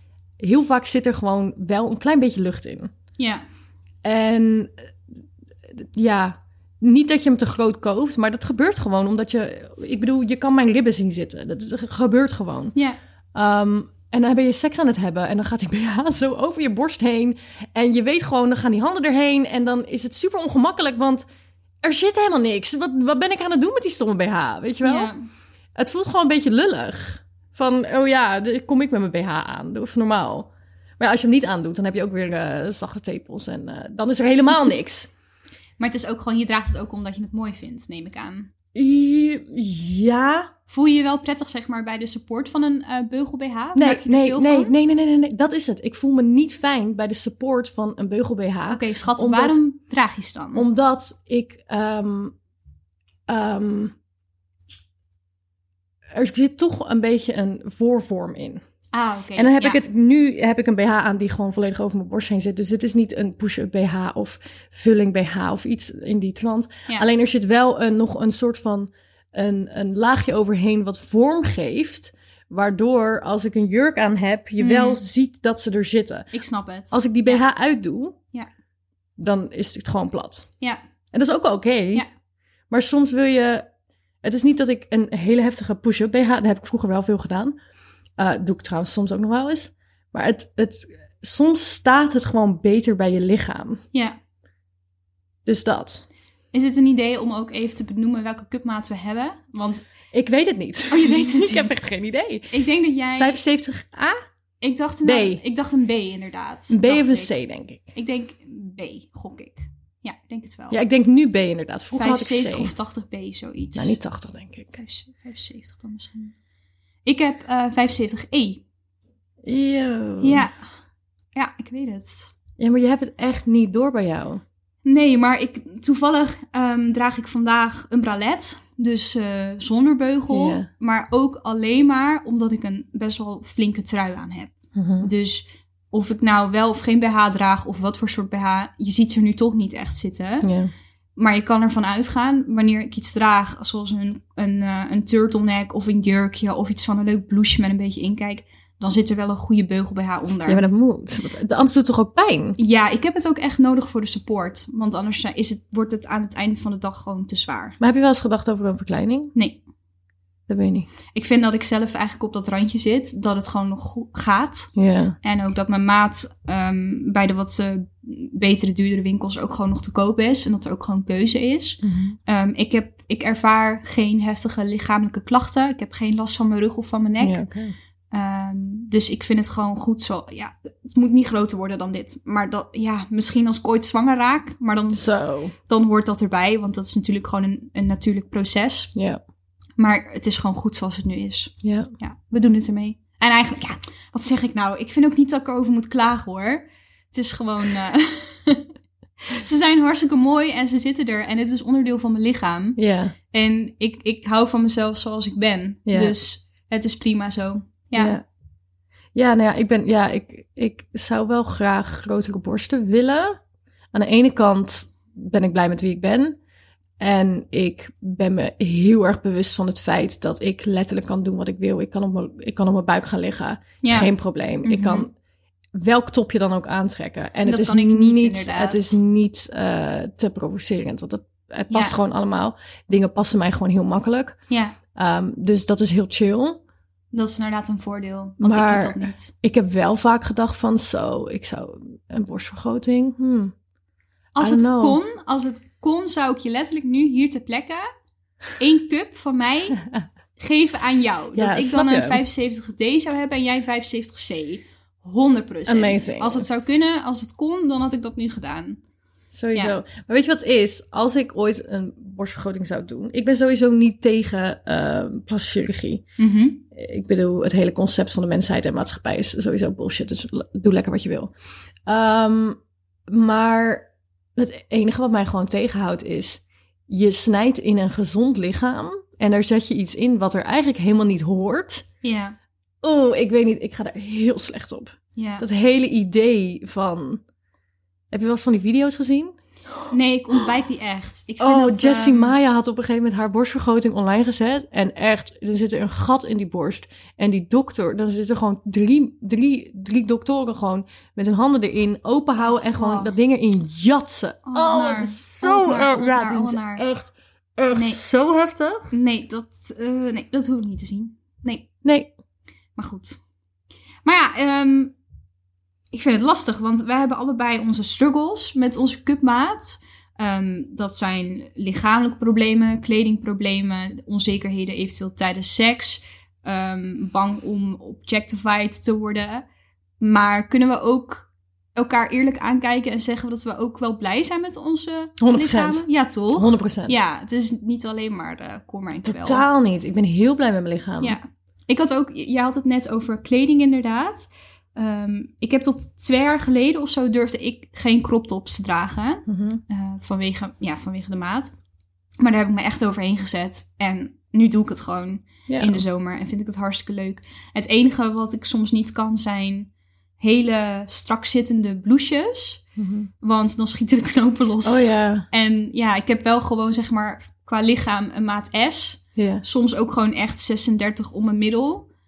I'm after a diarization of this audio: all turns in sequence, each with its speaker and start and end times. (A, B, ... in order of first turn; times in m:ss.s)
0:00.4-0:02.9 A
0:03.2-0:03.4 B
0:04.0-0:04.7 A
0:05.7-0:12.7 A
0:13.3-0:21.3 A
0:21.8-0:25.1 A
0:24.8-0:25.3 B
0:25.8-0:35.1 A
0:35.8-0:38.5 B
0:38.8-0:40.5 A
0:40.7-0:44.7 B
0:43.8-0:49.6 A
0:48.7-0:50.7 B
0:50.5-0:52.4 A
0:53.3-0:54.0 A
0:56.1-0:58.6 A
0:58.9-0:59.8 B
0:59.4-1:16.3 A
1:14.6-1:15.0 B
1:16.3-1:17.4 B
1:16.9-1:18.2 A
1:19.2-1:20.5 A
1:21.1-1:22.0 A
1:22.7-1:23.7 A
1:24.2-1:27.6 A
1:28.2-1:33.8 A
1:35.5-1:36.0 A
1:36.5-1:39.9 B
1:40.1-1:42.5 A
1:40.9-1:41.7 B
1:42.5-1:43.4 B
1:43.2-1:44.2 A
1:44.6-1:47.3 B
1:45.0-1:45.4 A
1:46.7-1:47.8 A
1:48.0-1:50.8 B
1:50.7-1:52.7 A
1:51.9-1:54.0 B
1:53.8-1:54.8 A
1:54.8-1:56.3 B
1:57.0-1:58.6 B
1:59.4-2:00.5 A
2:00.2-2:00.6 B
2:01.4-2:02.3 B
2:02.6-2:04.4 A
2:04.8-2:20.5 B
2:10.3-2:10.7 A
2:14.8-2:15.1 A
2:20.4-2:20.7 A
2:21.2-2:30.7 B
2:30.5-2:32.6 A
2:32.6-2:37.8 B
2:37.8-2:39.3 A
2:39.4-2:39.6 B
2:40.5-2:40.9 A
2:41.1-2:57.4 B
2:44.8-2:45.2 A
2:51.8-2:52.2 A
2:57.2-2:57.8 A
2:58.1-3:05.0 B
3:04.9-3:05.5 A
3:05.7-3:08.9 B
3:09.0-3:09.2 A
3:09.8-3:18.7 B
3:11.6-3:11.9 A
3:19.3-3:22.8 B
3:22.8-3:23.1 A
3:23.3-3:28.2 B
3:25.9-3:26.2 A
3:28.0-3:28.2 A
3:29.2-3:33.4 A
3:33.9-3:36.4 A
3:37.0-3:45.1 A
3:43.8-3:44.1 B
3:44.6-3:45.1 B
3:45.7-3:54.4 A
3:47.4-3:49.0 B
3:51.7-3:52.0 B
3:54.5-3:54.8 B
3:55.0-3:56.6 A
3:57.1-3:59.3 B
3:58.4-4:03.5 A
4:04.4-4:07.8 B
4:04.4-4:05.0 A
4:08.6-4:09.8 B
4:10.4-4:18.8 B
4:11.4-4:12.2 A
4:15.7-4:16.5 A
4:19.3-4:26.0 A
4:26.2-4:26.6 B
4:26.7-4:31.3 A
4:31.9-4:41.8 A
4:42.0-4:42.4 B
4:42.8-4:47.2 A
4:45.2-4:45.5 B
4:48.1-4:49.4 A
4:49.9-4:52.4 B
4:51.4-5:08.9 A
5:02.4-5:03.1 B
5:04.5-5:06.8 B
5:07.7-5:08.0 B
5:08.9-5:11.7 B
5:11.8-5:12.1 A
5:12.8-5:13.2 B
5:14.0-5:15.0 B
5:15.9-5:29.5 B
5:30.0-5:39.4 B
5:35.2-5:37.0 A
5:39.0-5:41.2 A
5:41.0-5:51.5 B
5:49.3-5:49.6 A
5:52.2-6:02.6 B
5:55.5-5:55.8 A
6:02.8-6:03.1 A
6:03.2-6:11.9 B
6:04.6-6:05.3 A
6:09.2-6:09.4 A